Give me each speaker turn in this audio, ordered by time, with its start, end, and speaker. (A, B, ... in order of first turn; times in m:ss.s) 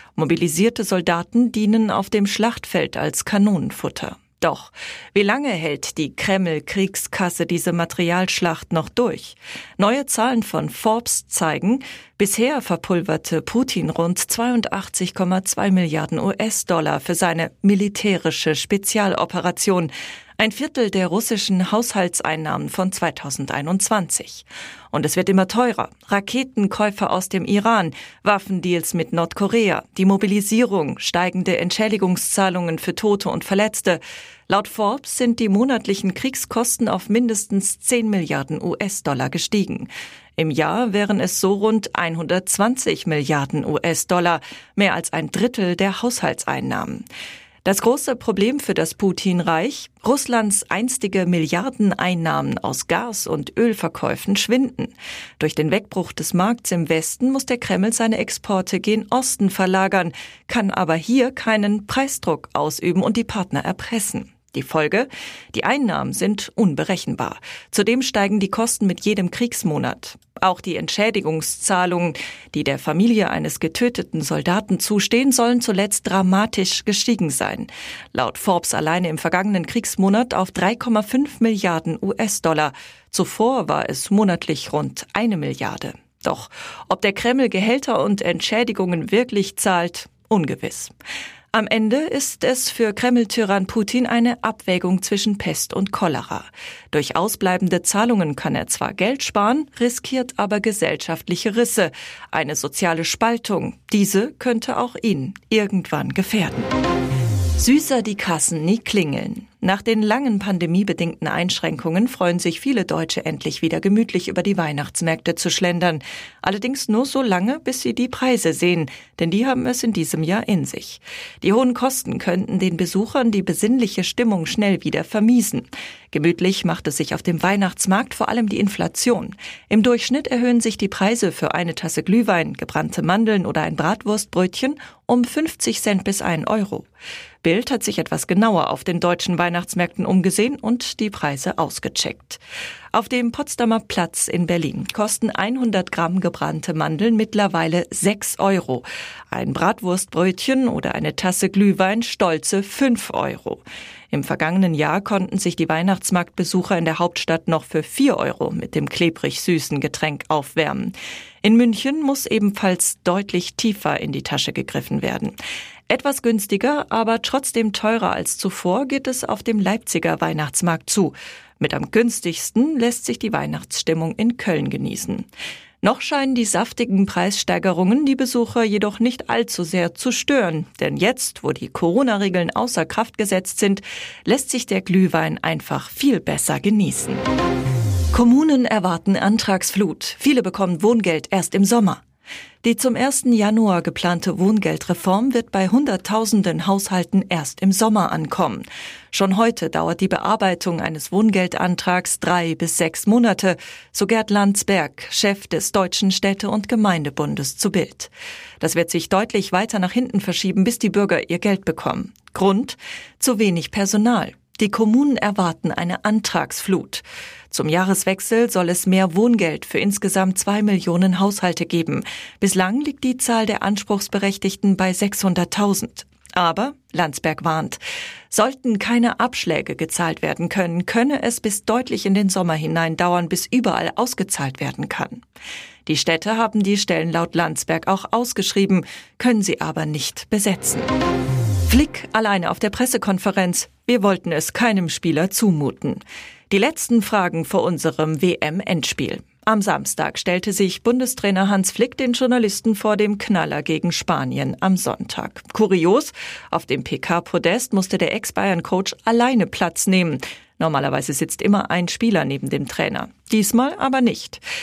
0:00.2-0:47.1 A
0:47.6-1:30.9 A
1:31.5-1:46.7 A
1:47.6-2:16.9 A
2:17.4-2:22.4 A
2:22.9-2:45.4 A
2:45.9-2:55.3 A
2:55.8-3:07.2 A
3:08.1-3:12.0 A
3:12.6-3:55.2 A
3:55.9-4:00.9 A
4:01.7-4:24.4 A